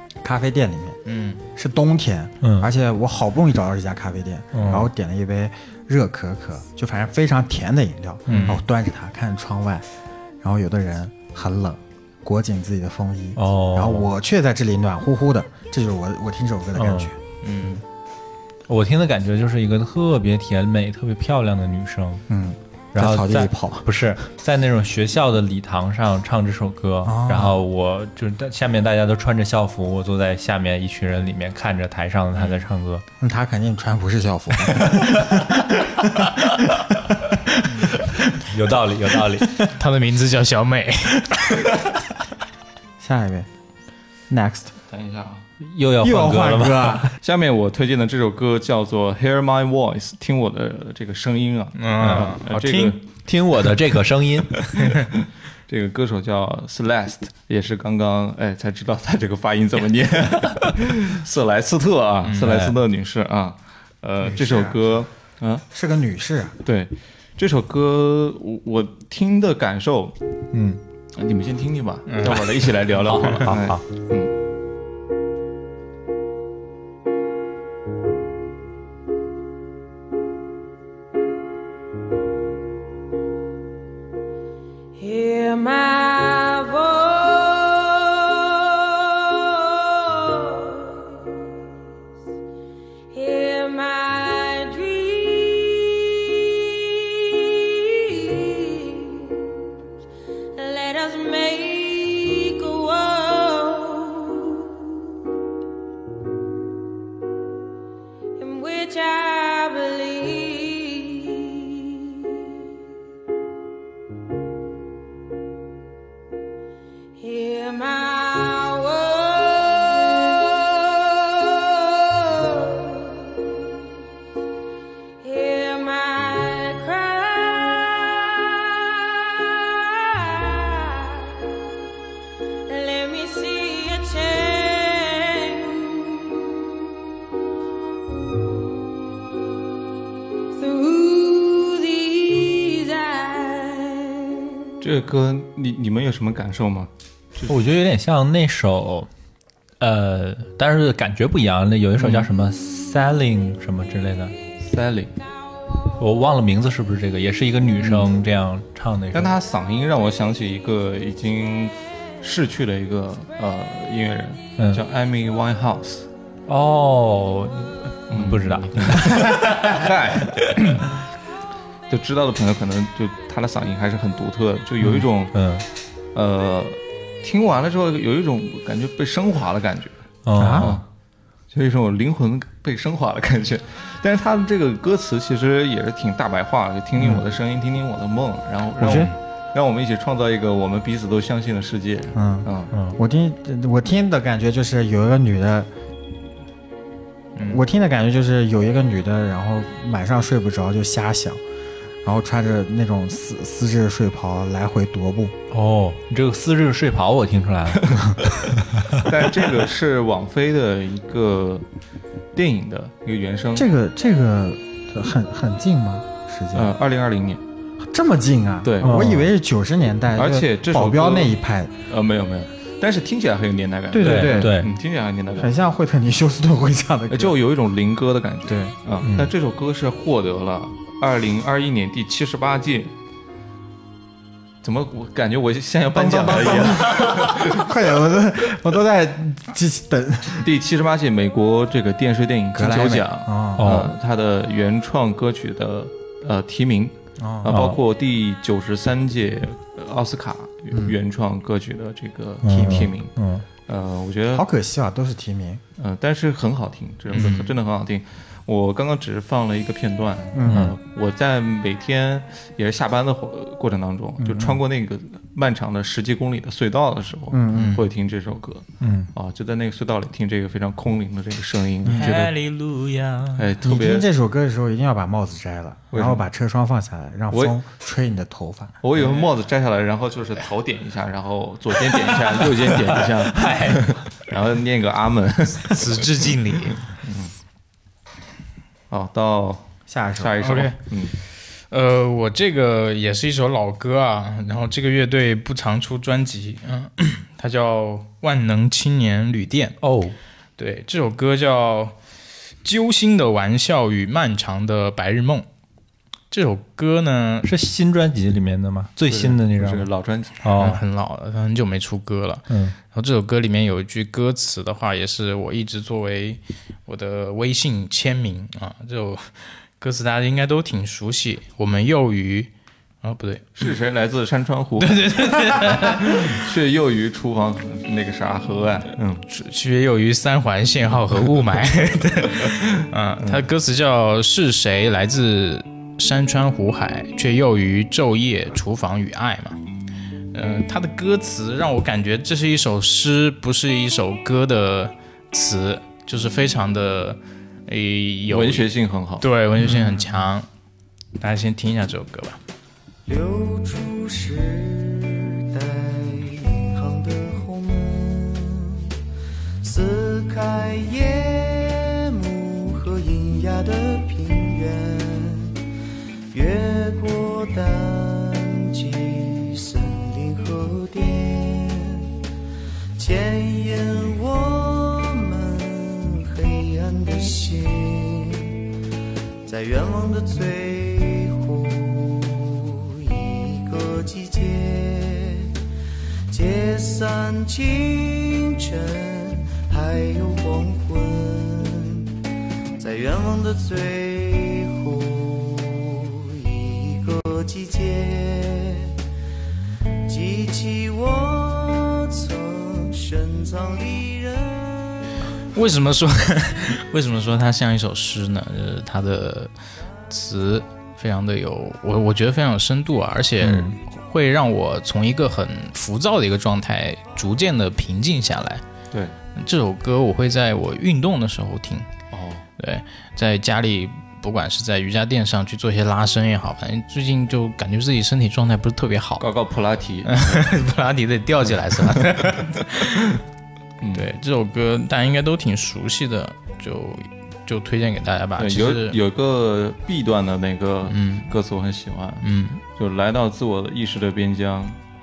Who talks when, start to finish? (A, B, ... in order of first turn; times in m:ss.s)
0:00.2-0:01.0 A
0:01.0-0:01.4 B
0:01.6-0:09.8 A
0:02.4-0:02.7 C
0:04.5-0:04.9 C
0:08.3-0:08.6 C
0:08.3-0:08.6 B
0:10.4-0:17.2 A
0:13.4-0:14.1 C
0:16.8-0:17.1 C
0:17.4-0:17.8 B
0:18.7-0:22.2 C
0:22.3-0:24.0 A
0:22.9-0:33.0 C
0:27.0-0:27.6 A
0:33.2-0:38.1 A
0:38.5-0:39.5 C
0:39.8-0:41.6 B
0:43.0-0:43.5 A
0:44.3-0:44.7 A
0:44.9-0:45.4 D
0:45.6-0:47.1 C
0:46.0-0:47.2 A
0:47.2-0:53.0 D
0:51.8-0:52.4 B
0:52.0-0:54.6 C
0:55.7-1:05.6 D
1:02.2-1:02.6 B
1:02.4-1:02.7 C
1:04.2-1:04.8 A
1:05.7-1:06.6 A
1:06.6-1:10.1 D
1:10.5-1:10.8 C
1:11.2-1:14.3 D
1:12.1-1:12.5 B
1:13.1-1:13.8 C
1:25.0-1:31.4 E
1:33.1-1:39.5 E
1:40.6-1:44.9 E
1:48.4-1:52.3 E
1:57.2-2:03.7 E
2:05.2-2:11.6 E
2:12.7-2:16.5 E
2:20.6-2:24.5 E
2:24.8-2:27.5 D
2:27.5-2:29.1 C
2:29.8-2:34.4 C
2:32.0-2:32.3 D
2:34.6-2:35.1 D
2:36.0-2:39.4 C
2:37.8-2:38.1 D
2:39.1-2:46.1 D
2:46.5-2:49.8 C
2:48.1-2:50.9 D
2:51.9-2:55.3 D
2:54.8-2:55.6 C
2:56.1-3:00.0 D
3:00.2-3:00.8 C
3:00.4-3:00.8 A
3:01.5-3:12.7 D
3:08.8-3:09.1 A
3:12.1-3:15.7 A
3:17.4-3:17.6 B
3:17.5-3:21.4 A
3:22.0-3:25.3 A
3:25.5-3:28.0 C
3:28.5-3:29.0 C
3:29.0-3:31.6 D
3:32.3-3:33.7 D
3:33.5-3:36.7 A
3:36.5-3:37.4 D
3:37.8-3:41.7 A
3:38.6-3:39.0 D
3:38.8-3:39.3 C
3:40.2-3:41.4 D
3:41.9-3:45.5 D
3:43.9-3:44.6 A
3:44.0-3:44.7 C
3:45.4-3:47.4 A
3:47.1-3:52.9 D
3:48.5-3:48.7 A
3:49.0-3:49.3 C
3:54.6-3:57.7 D
3:55.9-4:00.4 A
4:00.4-4:13.1 D
4:02.5-4:03.7 A
4:03.6-4:03.9 C
4:07.2-4:07.5 A
4:07.4-4:07.8 C
4:12.4-4:13.4 C
4:12.4-4:12.9 A
4:13.7-4:14.4 D
4:14.3-4:15.6 A
4:15.8-4:32.3 D
4:17.1-4:17.5 B
4:20.3-4:20.7 A
4:20.5-4:20.7 C
4:24.2-4:24.6 A
4:27.3-4:27.8 A
4:27.5-4:27.8 B
4:28.8-4:29.1 C
4:31.8-4:32.1 A
4:31.9-4:33.5 B
4:33.4-4:34.0 D
4:33.6-4:38.7 A
4:35.9-4:36.2 D
4:37.3-4:37.6 D
4:38.8-4:46.0 D
4:39.0-4:39.2 B
4:43.3-4:43.8 C
4:45.6-4:46.8 B
4:47.0-4:47.3 D
4:48.9-4:51.1 D
4:49.9-4:50.3 A
4:50.4-4:50.8 B
4:51.7-4:59.8 B
4:59.8-5:00.2 C
5:00.6-5:02.0 B
5:02.6-5:05.5 B
5:06.3-5:07.5 B
5:07.4-5:09.9 C
5:09.1-5:10.4 D
5:10.4-5:10.8 C
5:10.5-5:22.5 B
5:12.5-5:12.8 C
5:23.0-5:23.4 B
5:23.6-5:29.2 D
5:24.8-5:26.4 B
5:29.3-5:39.6 B
5:40.3-5:48.7 B
5:48.3-5:49.2 D
5:49.2-5:50.5 B
5:51.2-5:52.4 B
5:53.1-5:58.9 F
5:59.6-6:05.6 F
6:06.3-6:12.1 F
6:13.0-6:18.6 F
6:19.4-6:25.5 F
6:26.3-6:32.1 F
6:32.8-6:38.9 F
6:40.1-6:45.1 F
6:45.5-6:49.5 B
6:50.1-6:58.6 B
6:53.4-6:53.8 C
6:59.4-7:01.9 B
7:02.1-7:02.4 D
7:02.6-7:09.2 B
7:09.2-7:10.2 D
7:10.0-7:13.2 B
7:11.8-7:12.2 D
7:13.8-7:14.1 D
7:13.9-7:19.0 B
7:18.4-7:24.8 D
7:20.9-7:21.3 B
7:22.2-7:22.6 B